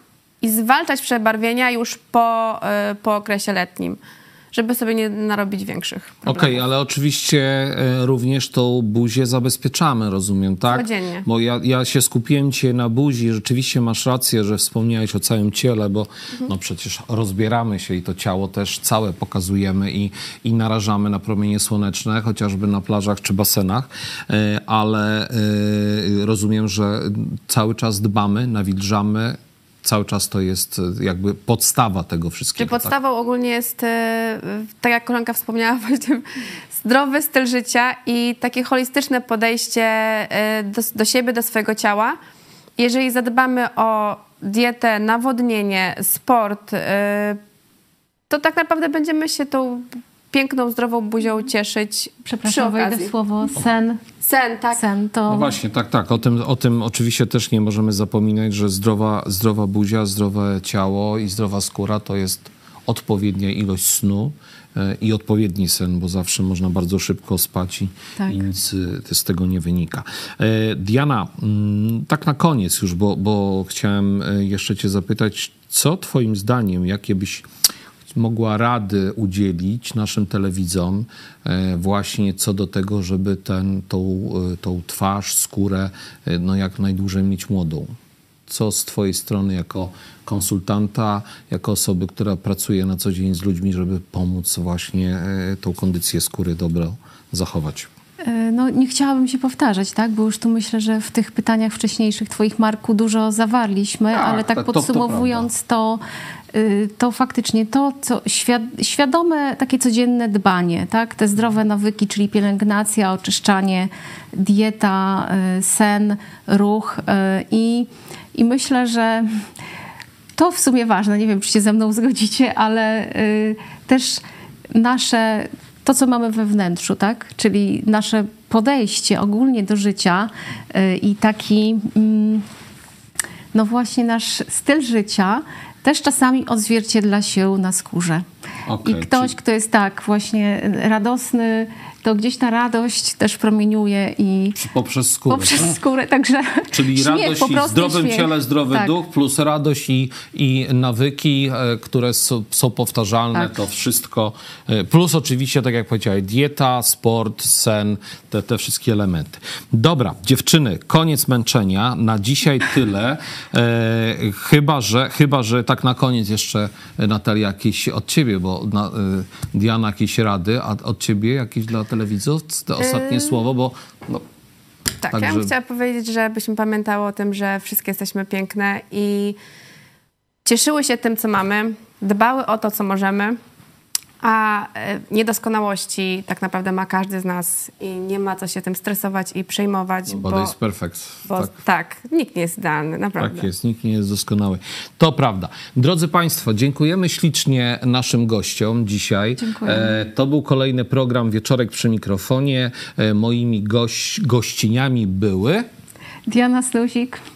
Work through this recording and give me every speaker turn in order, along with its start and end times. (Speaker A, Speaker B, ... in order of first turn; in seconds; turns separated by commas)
Speaker A: 0.4-4.0, Speaker A: 4.5-6.6, Speaker B: 6.2-32.9, Speaker A: 10.7-11.2, Speaker A: 32.6-42.2, Speaker A: 42.8-47.4, Speaker A: 48.3-53.1, Speaker C: 52.2-54.0, Speaker A: 54.2-54.8, Speaker C: 54.7-55.5, Speaker B: 55.3-77.5, Speaker B: 78.1-87.9, Speaker B: 88.5-97.9, Speaker C: 98.2-106.0, Speaker B: 104.1-105.5, Speaker C: 106.5-119.4, Speaker C: 120.4-132.4, Speaker C: 133.5-138.2, Speaker B: 138.7-139.3, Speaker C: 138.8-144.6, Speaker B: 144.6-145.8, Speaker C: 145.3-148.9, Speaker B: 146.7-174.2, Speaker A: 172.9-173.4, Speaker A: 175.0-179.4, Speaker B: 175.1-175.5, Speaker A: 180.4-183.4, Speaker A: 184.2-190.5, Speaker B: 190.1-191.5, Speaker A: 191.3-193.5, Speaker B: 193.2-205.7, Speaker C: 199.4-200.0, Speaker C: 206.3-207.2